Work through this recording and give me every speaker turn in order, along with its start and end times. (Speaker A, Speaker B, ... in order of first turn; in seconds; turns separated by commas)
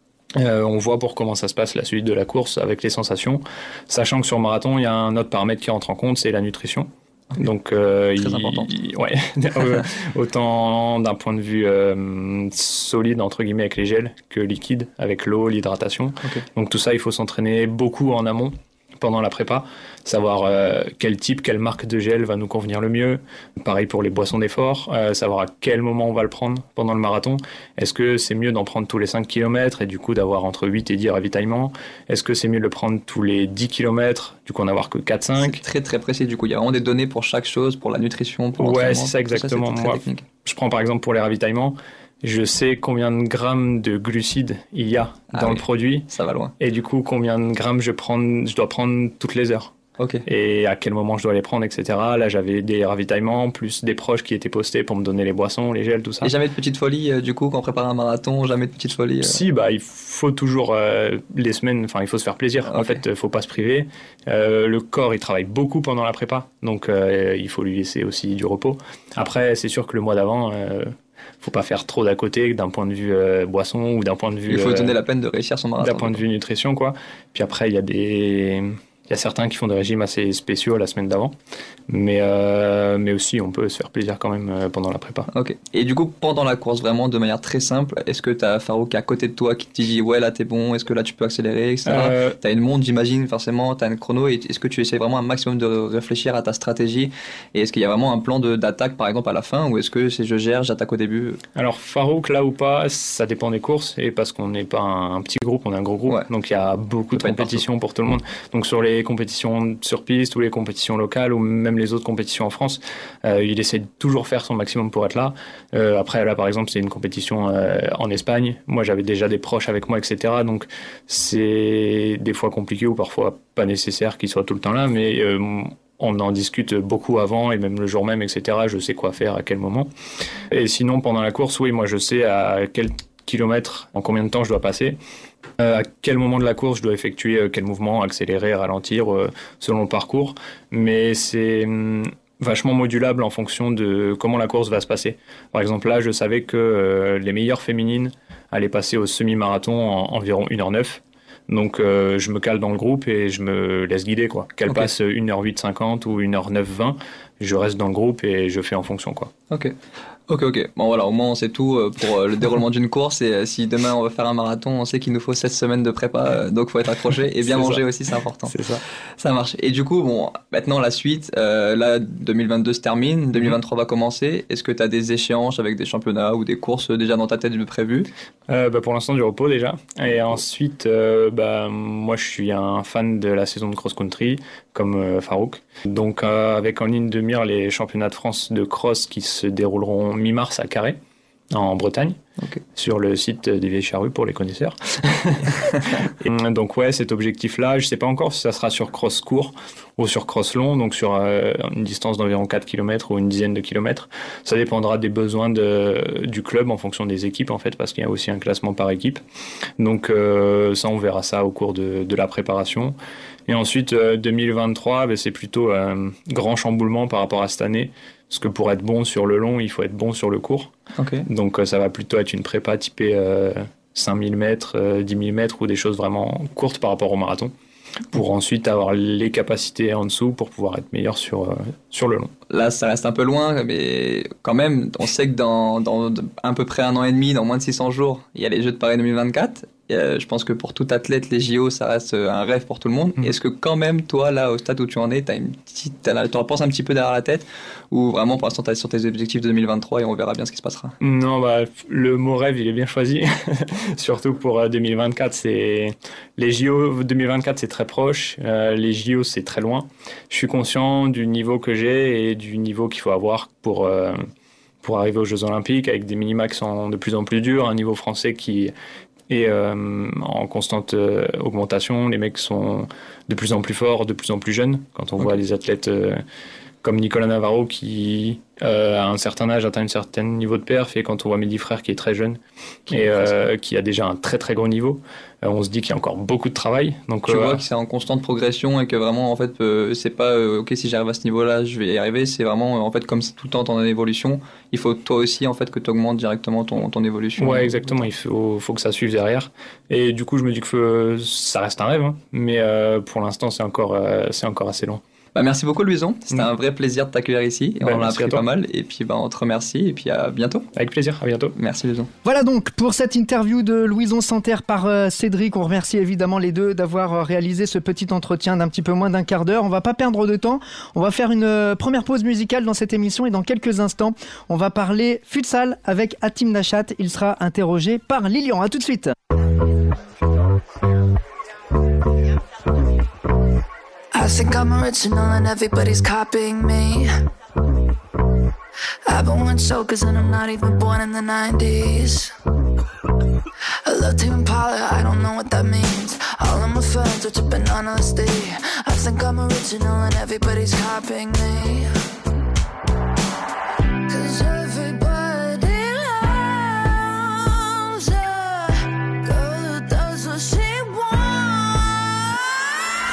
Speaker A: 0.4-35.6, Speaker B: 8.2-8.7, Speaker B: 35.4-40.2, Speaker A: 38.6-46.1, Speaker B: 45.3-46.5, Speaker A: 46.6-49.7, Speaker B: 50.0-50.2, Speaker A: 50.3-56.3, Speaker B: 56.2-59.4, Speaker A: 59.2-75.0, Speaker B: 62.7-63.0, Speaker B: 74.5-76.2, Speaker A: 75.8-81.3, Speaker A: 81.9-85.3, Speaker B: 85.3-101.4, Speaker A: 91.9-92.4, Speaker A: 101.6-129.9, Speaker B: 107.2-107.6, Speaker A: 130.5-135.0, Speaker A: 135.6-159.3, Speaker B: 160.3-168.6, Speaker A: 167.4-167.8, Speaker A: 168.5-168.8, Speaker B: 169.2-178.1, Speaker A: 178.5-191.0, Speaker A: 191.5-192.2, Speaker A: 192.8-209.2, Speaker A: 209.8-213.0, Speaker A: 213.5-220.7, Speaker B: 221.0-221.3, Speaker A: 221.3-227.5, Speaker A: 228.1-232.3, Speaker B: 232.5-251.0, Speaker A: 251.0-264.2, Speaker A: 264.8-268.7, Speaker A: 269.3-276.2, Speaker A: 276.8-282.4, Speaker A: 282.9-287.6, Speaker B: 282.9-283.4, Speaker B: 287.3-297.7, Speaker A: 297.4-305.0, Speaker B: 305.4-310.7, Speaker A: 307.8-308.4, Speaker A: 310.8-311.5, Speaker B: 311.6-312.1, Speaker C: 312.2-329.1, Speaker D: 334.1-337.1, Speaker D: 339.1-342.3, Speaker D: 343.9-351.9, Speaker D: 354.1-362.6